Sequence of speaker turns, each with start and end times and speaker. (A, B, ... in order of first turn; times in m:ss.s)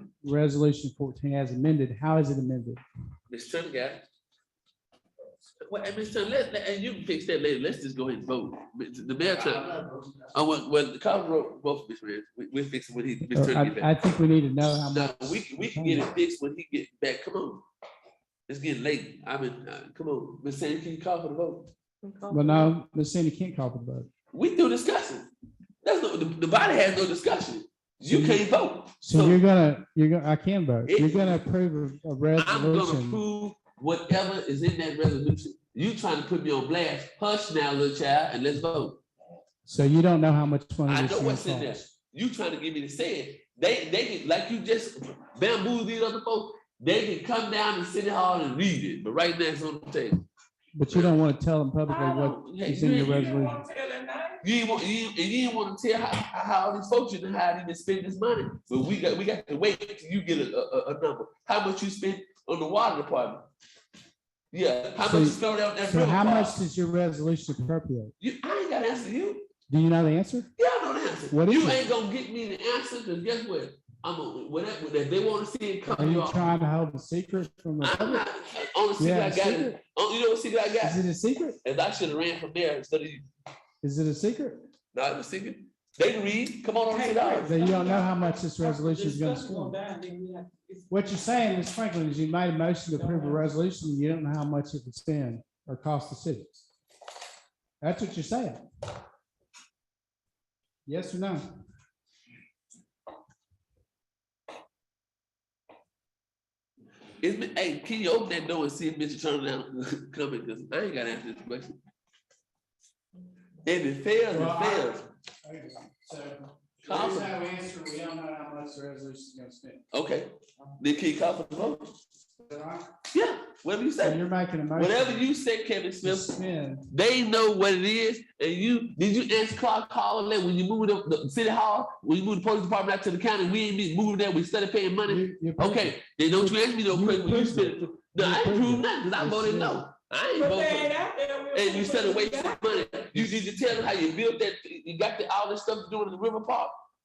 0:00.2-0:02.8 A
0:03.3-0:04.0 B
0:05.7-0:13.9 B
0:13.3-0:16.1 A
0:14.9-0:17.6 B
0:18.5-0:21.7 B
0:22.0-0:22.4 C
0:22.3-0:24.1 A
0:24.3-0:25.3 B
0:25.8-0:29.4 B
0:28.0-0:28.4 A
0:29.0-0:33.2 A
0:30.9-0:31.4 B
0:32.4-0:39.0 B
0:39.7-0:41.9 A
0:40.9-0:50.2 B
0:50.8-0:53.6 A
0:50.9-0:51.2 B
0:51.9-0:53.5 B
0:53.0-0:54.4 C
0:54.4-1:03.4 B
1:04.5-1:06.6 B
1:05.0-1:08.1 A
1:08.2-1:09.5 B
1:09.7-1:10.5 A
1:10.6-1:16.5 B
1:11.3-1:11.9 A
1:15.9-1:18.2 A
1:17.8-1:21.0 B
1:19.0-1:19.8 A
1:20.8-1:21.6 A
1:21.6-1:23.2 B
1:23.8-1:24.6 A
1:24.9-1:27.6 B
1:26.9-1:30.9 C
1:27.4-1:29.8 A
1:30.9-1:36.7 A
1:32.9-1:33.5 C
1:37.8-1:38.6 A
1:40.9-1:41.4 A
1:47.2-1:51.8 B
1:53.6-1:55.0 B
1:54.3-1:59.8 A
1:56.8-1:57.4 B
1:59.9-2:02.0 B
2:02.4-2:02.9 A
2:03.1-2:06.4 B
2:04.0-2:05.3 A
2:06.0-2:06.9 A
2:06.9-2:26.8 B
2:15.1-2:19.9 A
2:20.4-2:22.9 C
2:23.1-2:23.5 A